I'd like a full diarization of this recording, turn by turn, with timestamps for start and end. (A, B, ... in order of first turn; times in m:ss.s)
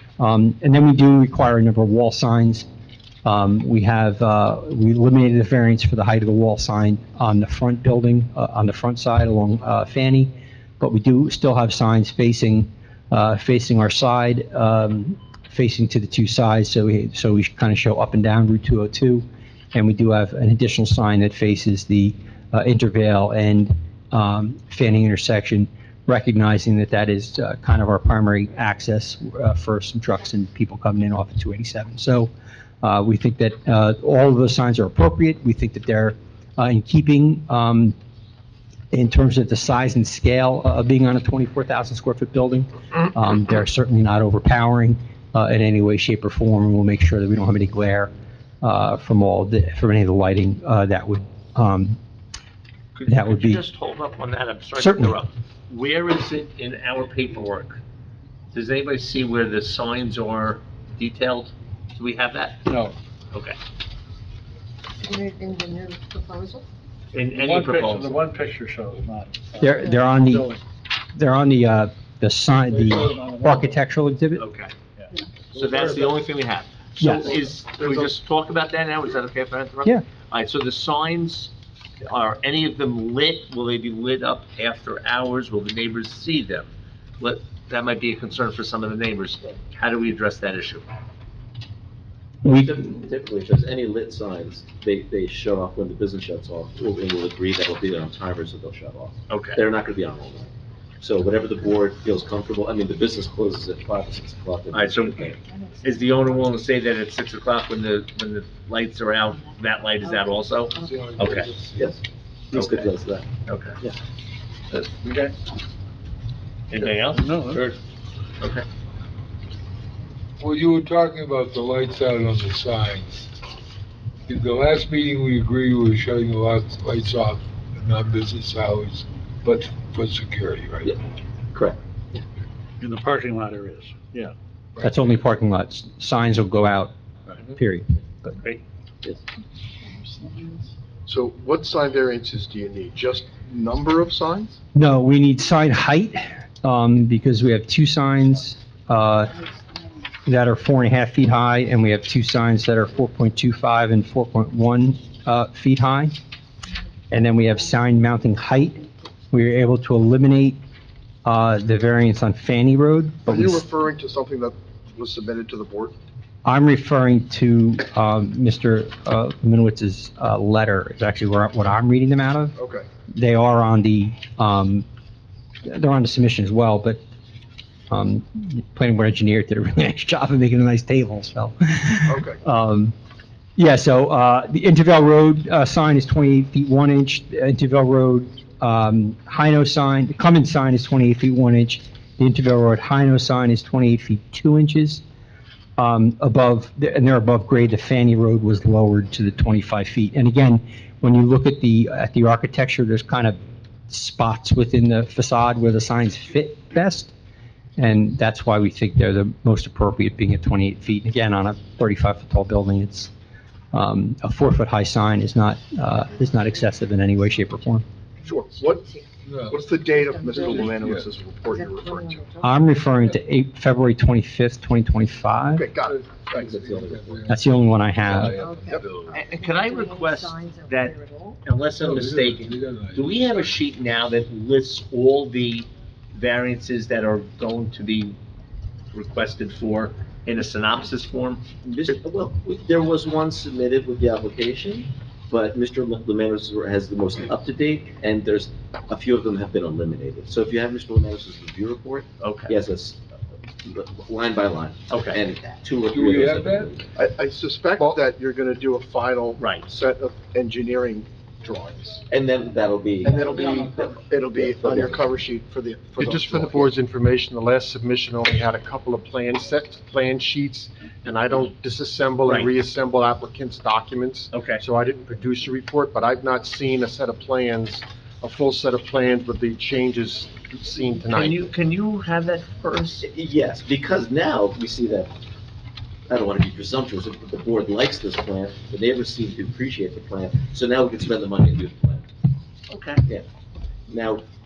0:00.2-0:02.7 A
0:03.2-0:32.3 A
0:32.8-0:38.0 A
0:38.9-0:48.1 A
0:48.6-0:52.0 A
0:53.0-0:57.8 B
0:53.1-0:53.6 A
0:54.8-0:55.2 A
0:58.5-1:02.7 B
1:02.7-1:03.0 C
1:05.0-1:06.7 D
1:07.1-1:08.2 B
1:07.2-1:10.6 C
1:09.6-1:10.5 A
1:11.2-1:14.4 A
1:12.7-1:13.7 C
1:14.4-1:14.7 B
1:15.5-1:21.5 B
1:15.6-1:15.9 E
1:17.0-1:17.4 A
1:22.0-1:30.9 B
1:32.4-1:32.7 A
1:32.5-1:45.3 E
1:39.3-1:39.6 B
1:44.7-1:51.5 B
1:45.4-1:46.3 D
1:50.2-1:51.1 D
1:50.8-1:52.0 F
1:51.8-1:53.3 E
1:52.5-1:52.9 B
1:53.5-1:53.8 B
1:54.7-1:55.4 B
1:56.7-1:57.4 B
1:57.1-1:57.7 C
1:57.5-1:57.8 F
2:00.4-2:03.3 F
2:04.3-2:11.0 F
2:11.5-2:12.2 E
2:12.8-2:14.3 C
2:14.8-2:16.9 A
2:17.4-2:18.4 A
2:21.1-2:24.6 G
2:24.8-2:29.4 A
2:30.3-2:36.2 A
2:37.1-2:40.6 A
2:41.2-2:43.6 A
2:43.3-2:46.0 G
2:46.4-2:52.6 A
2:52.6-2:52.9 G
2:53.2-2:54.8 A
2:55.6-2:57.0 A
2:57.9-3:03.0 A
3:02.1-3:02.4 G
3:03.6-3:15.0 A
3:15.8-3:23.4 A
3:23.9-3:27.1 A
3:27.8-3:33.1 A
3:33.7-3:37.8 A
3:36.0-3:37.5 D
3:38.2-3:39.2 D
3:38.2-3:38.9 G
3:39.2-3:39.7 F
3:39.4-3:42.2 G
3:39.8-3:42.9 D
3:40.5-3:41.1 F
3:42.4-3:45.7 A
3:45.6-3:46.6 G
3:45.8-3:49.2 F
3:46.5-3:47.3 E
3:47.3-3:48.4 A
3:48.2-3:51.4 D
3:49.1-3:58.2 B
3:51.8-3:53.6 F
3:58.9-4:01.4 B
4:01.6-4:13.0 E
4:12.2-4:12.5 B
4:13.6-4:16.9 E
4:14.9-4:15.2 B
4:15.9-4:16.7 F
4:17.0-4:22.0 G
4:19.4-4:19.7 B
4:22.1-4:25.0 E
4:23.0-4:26.8 G
4:26.0-4:41.5 H
4:32.2-4:32.5 B
4:34.3-4:34.6 B
4:41.1-4:43.0 B
4:43.0-4:45.1 E
4:46.1-4:52.1 E
4:52.7-4:53.0 B
4:53.9-4:54.2 E